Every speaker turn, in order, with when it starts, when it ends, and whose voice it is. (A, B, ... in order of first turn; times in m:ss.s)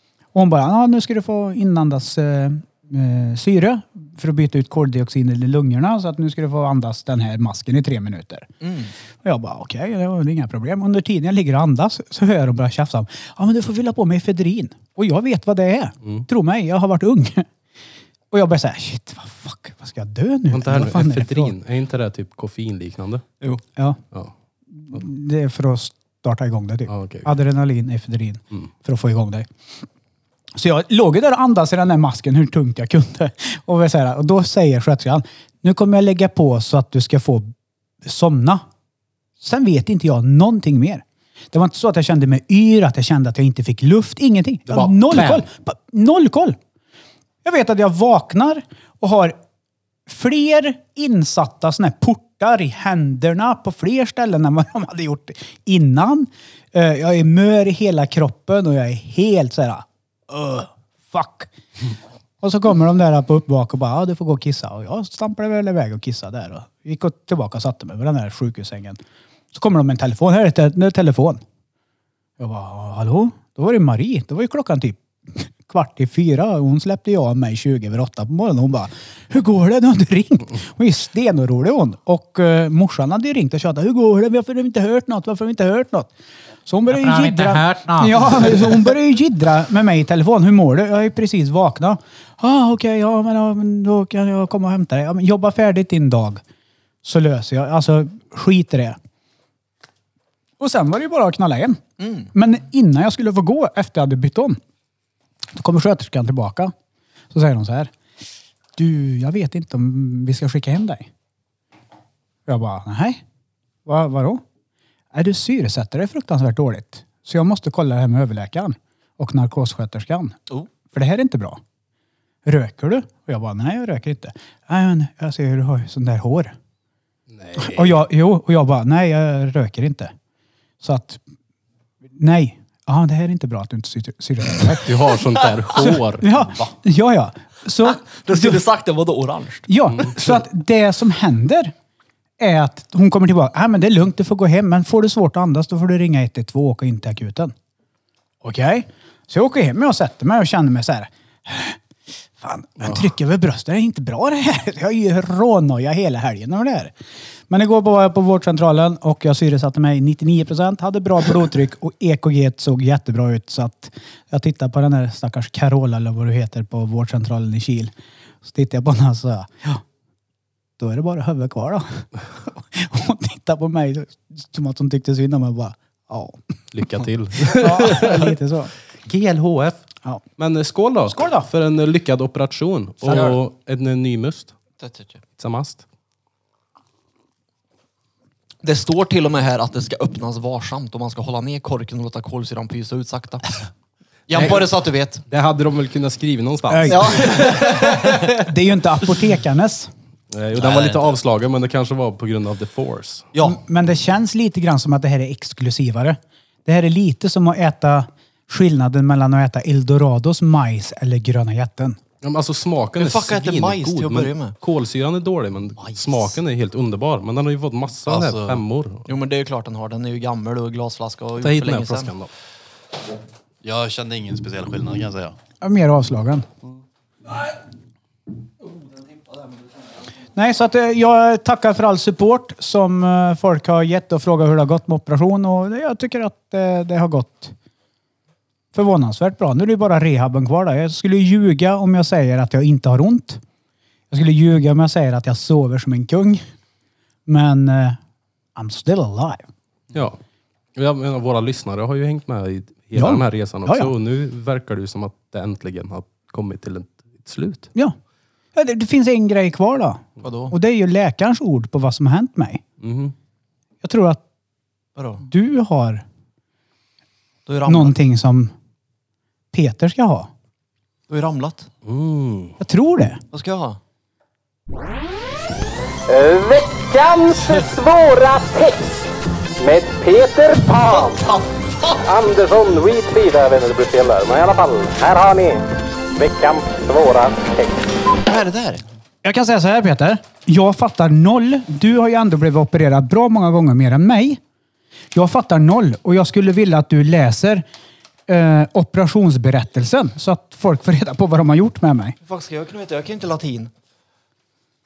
0:00.3-0:08.5 A
0:08.6-0:08.9 B
0:09.2-0:17.5 A
0:18.3-0:21.5 A
0:20.5-0:23.2 C
0:24.7-0:29.5 A
0:26.9-0:27.3 C
0:30.5-0:37.5 A
0:38.0-0:38.6 A
0:39.4-0:46.6 A
0:44.7-0:45.5 C
0:47.4-0:49.4 A
0:50.1-1:01.5 A
1:02.4-1:09.0 A
1:09.5-1:11.4 A
1:12.4-1:26.1 A
1:26.6-1:36.4 A
1:37.0-1:39.0 A
1:40.6-1:41.8 A
1:42.0-1:42.3 B
1:42.3-1:44.6 A
1:45.5-1:46.7 A
1:47.3-1:47.9 A
1:48.8-1:51.1 A
1:52.5-1:53.2 A
1:53.8-1:54.4 A
1:55.1-2:00.4 A
2:00.9-2:01.6 A
2:02.4-2:06.5 A
2:07.3-2:08.0 C
2:07.6-2:10.1 A
2:10.8-2:11.2 A
2:12.2-2:14.9 A
2:14.6-2:16.3 C
2:15.7-2:18.6 A
2:17.9-2:20.4 B
2:19.7-2:21.7 A
2:22.4-2:27.5 A
2:28.4-2:31.8 A
2:32.4-2:36.9 A
2:37.5-2:47.9 A
2:48.4-2:49.8 A
2:50.8-2:56.5 A
2:56.7-2:58.4 C
2:57.5-2:58.7 A
2:59.0-2:59.8 C
3:00.4-3:04.5 C
3:01.1-3:01.5 A
3:03.0-3:03.4 B
3:04.8-3:05.2 B
3:05.4-3:05.8 C
3:08.6-3:13.6 B
3:14.3-3:15.2 B
3:14.3-3:14.7 C
3:15.3-3:18.3 C
3:16.7-3:19.9 A
3:16.9-3:18.2 B
3:20.3-3:23.3 C
3:20.5-3:21.2 D
3:23.4-3:32.0 A
3:32.2-3:39.1 C
3:33.0-3:34.5 B
3:35.8-3:36.2 B
3:38.0-3:38.6 D
3:39.1-3:42.1 B
3:41.4-3:42.3 C
3:43.6-3:45.4 D
3:45.6-3:46.5 A
3:50.3-3:57.5 A
3:58.7-4:03.4 A
4:04.1-4:06.4 A
4:07.2-4:08.0 A
4:08.6-4:09.4 A
4:09.9-4:10.2 C
4:10.7-4:17.7 C
4:12.9-4:13.9 A
4:18.5-4:22.6 A
4:20.2-4:20.5 B
4:22.8-4:23.1 C
4:23.8-4:24.2 A
4:25.0-4:25.2 B
4:25.2-4:26.0 A
4:27.4-4:28.0 B
4:27.6-4:28.5 A
4:29.5-4:30.3 A
4:31.1-4:31.7 B
4:31.8-4:32.6 C
4:32.6-4:33.2 A
4:33.3-4:33.8 B
4:36.1-4:39.0 E
4:39.6-4:41.2 E
4:40.8-4:42.0 B
4:42.0-4:47.9 E
4:48.2-4:48.8 B
4:49.2-4:54.4 A
4:55.1-4:57.6 A
4:58.3-5:02.2 A
5:02.2-5:03.7 B